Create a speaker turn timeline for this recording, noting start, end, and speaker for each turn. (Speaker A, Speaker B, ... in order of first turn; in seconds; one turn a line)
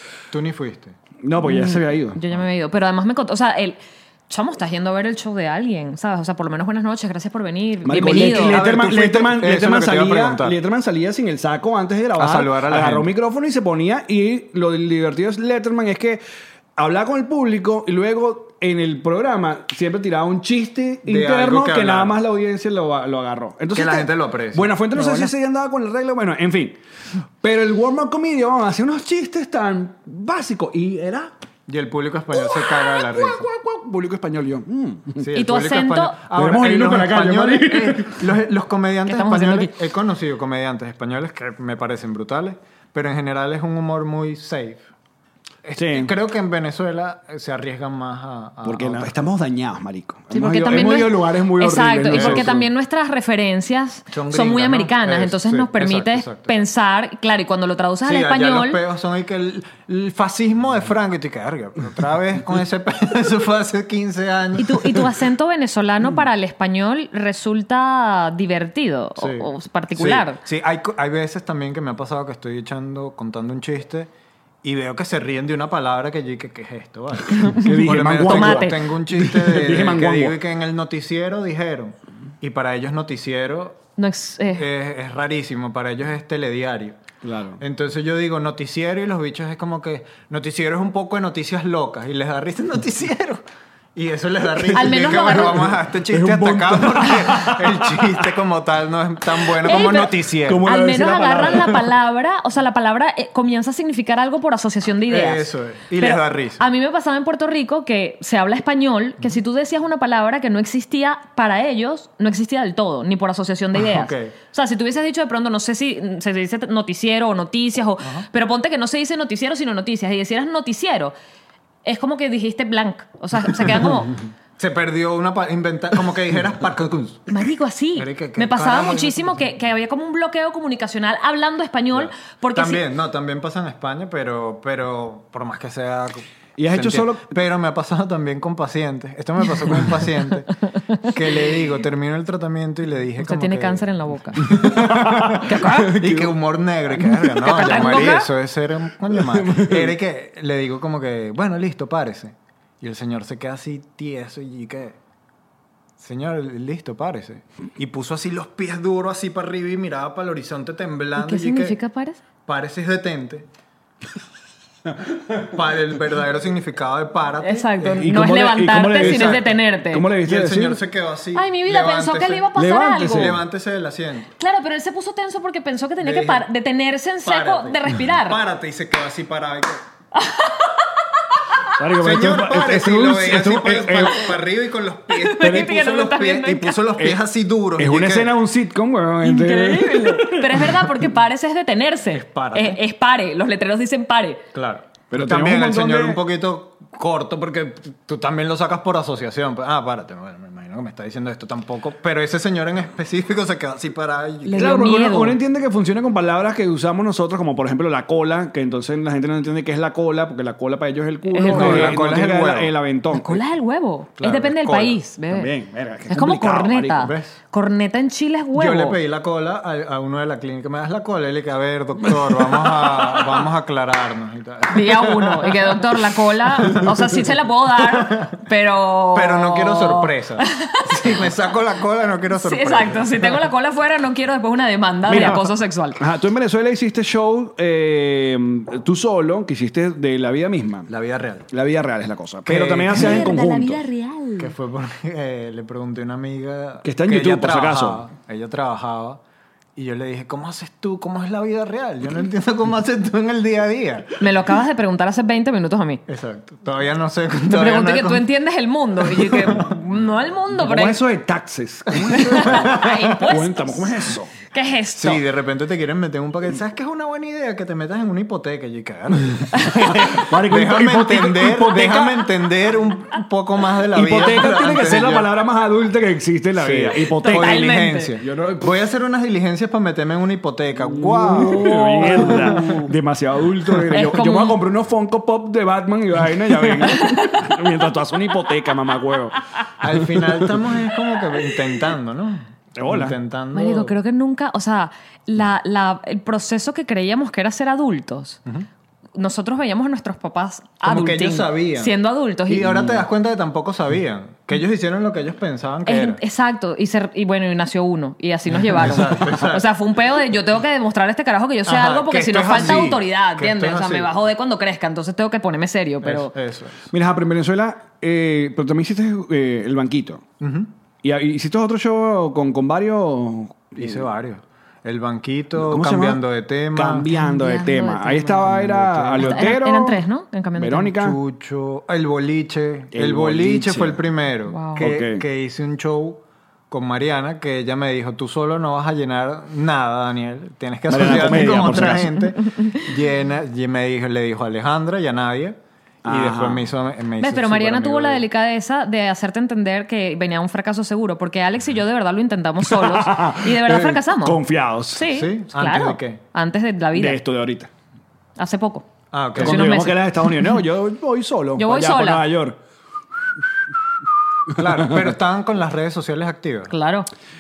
Speaker A: 0.3-1.0
Speaker B: 1.2-2.2
Speaker C: 1.4-8.6
Speaker B: 7.8-16.2
Speaker A: 8.0-10.6
Speaker A: 12.2-13.1
Speaker B: 16.8-26.8
Speaker A: 21.1-22.2
Speaker A: 23.7-25.3
Speaker B: 27.4-31.3
Speaker A: 31.7-33.5
Speaker B: 32.3-35.3
Speaker A: 35.2-44.8
Speaker C: 35.3-36.2
Speaker B: 36.3-38.3
Speaker C: 39.1-39.7
Speaker A: 45.6-49.3
Speaker B: 45.8-46.1
Speaker B: 48.6-52.7
Speaker C: 50.3-58.8
Speaker A: 52.1-52.5
Speaker A: 54.1-56.6
Speaker A: 58.0-65.0
Speaker C: 64.6-70.4
Speaker A: 69.2-74.1
Speaker A: 74.6-83.8
Speaker C: 77.3-77.7
Speaker B: 77.5-80.4
Speaker C: 78.2-78.8
Speaker C: 84.0-84.7
Speaker A: 84.5-87.0
Speaker B: 87.2-87.6
Speaker A: 87.6-93.4
Speaker A: 93.9-100.7
Speaker C: 94.7-95.7
Speaker B: 94.8-98.2
Speaker C: 99.6-121.1
Speaker B: 100.4-101.9
Speaker A: 105.1-106.6
Speaker A: 113.8-114.3
Speaker C: 121.8-124.2
Speaker A: 124.6-127.3
Speaker C: 127.3-132.8
Speaker A: 128.0-129.4
Speaker A: 131.9-155.0
Speaker B: 136.6-137.3
Speaker C: 140.9-141.2
Speaker C: 143.2-144.5
Speaker B: 144.4-146.4
Speaker C: 145.4-145.9
Speaker B: 146.9-148.1
Speaker C: 147.4-148.3
Speaker B: 149.1-150.0
Speaker A: 156.0-161.8
Speaker C: 161.2-162.2
Speaker A: 162.4-163.5
Speaker A: 165.3-168.2
Speaker C: 167.4-170.0
Speaker B: 168.0-170.8
Speaker A: 168.9-169.6
Speaker A: 170.2-172.5
Speaker C: 171.3-173.3
Speaker B: 172.5-173.4
Speaker A: 173.0-174.3
Speaker C: 174.4-178.4
Speaker A: 176.0-176.5
Speaker A: 177.2-179.8
Speaker C: 180.1-180.9
Speaker B: 181.8-184.4
Speaker A: 182.0-188.4
Speaker C: 185.1-186.8
Speaker B: 185.4-185.7
Speaker B: 186.9-187.2
Speaker B: 187.8-190.7
Speaker C: 189.2-194.4
Speaker A: 192.1-192.8
Speaker A: 194.5-204.8
Speaker B: 195.1-196.2
Speaker C: 204.4-205.4
Speaker B: 204.6-213.4
Speaker C: 211.3-212.0
Speaker A: 211.4-212.7
Speaker C: 213.1-215.5
Speaker A: 214.2-215.0
Speaker B: 215.3-217.1
Speaker C: 216.1-219.0
Speaker A: 217.0-217.4
Speaker A: 218.5-227.1
Speaker B: 222.3-223.4
Speaker C: 224.7-231.2
Speaker A: 227.8-228.4
Speaker A: 229.1-233.4
Speaker C: 232.3-236.0
Speaker B: 235.1-240.9
Speaker A: 240.9-241.5
Speaker B: 241.5-243.9
Speaker A: 242.4-243.4
Speaker C: 242.9-244.5
Speaker A: 244.4-249.2
Speaker B: 246.8-248.0
Speaker A: 249.8-254.2
Speaker C: 254.2-256.0
Speaker A: 256.1-258.3
Speaker C: 257.5-261.0
Speaker A: 259.1-259.7
Speaker B: 260.5-264.3
Speaker A: 261.9-263.2
Speaker C: 262.1-265.2
Speaker A: 264.9-275.3
Speaker C: 269.5-270.0
Speaker B: 269.8-272.3
Speaker B: 273.9-278.7
Speaker A: 276.5-282.8
Speaker C: 277.2-278.1
Speaker B: 280.8-290.6
Speaker C: 281.9-282.8
Speaker C: 283.9-284.6
Speaker C: 286.8-287.4
Speaker A: 289.8-293.9
Speaker B: 292.8-293.1
Speaker C: 293.5-298.4
Speaker C: 299.1-302.9
Speaker A: 300.8-306.2
Speaker C: 305.9-316.3
Speaker A: 308.5-309.7
Speaker A: 311.6-314.1
Speaker A: 316.0-316.9
Speaker B: 316.9-320.2
Speaker A: 320.4-320.7
Speaker B: 321.0-324.1
Speaker A: 323.8-327.1
Speaker B: 325.6-326.2
Speaker B: 326.7-330.0
Speaker C: 327.1-328.5
Speaker A: 328.4-329.5
Speaker C: 329.2-330.9
Speaker B: 330.6-331.2
Speaker A: 331.0-348.2
Speaker B: 332.9-334.0
Speaker C: 334.5-334.8
Speaker B: 334.8-335.2
Speaker B: 340.9-342.3
Speaker C: 342.5-342.8
Speaker B: 346.0-346.7
Speaker C: 347.2-354.4
Speaker B: 352.6-355.1
Speaker C: 354.9-357.2
Speaker A: 355.1-356.2
Speaker B: 356.9-357.7
Speaker C: 358.4-358.9
Speaker A: 359.1-359.6
Speaker B: 359.4-362.6
Speaker C: 359.4-360.6
Speaker C: 361.6-362.2
Speaker B: 364.5-365.1
Speaker A: 364.5-366.7
Speaker C: 366.7-367.1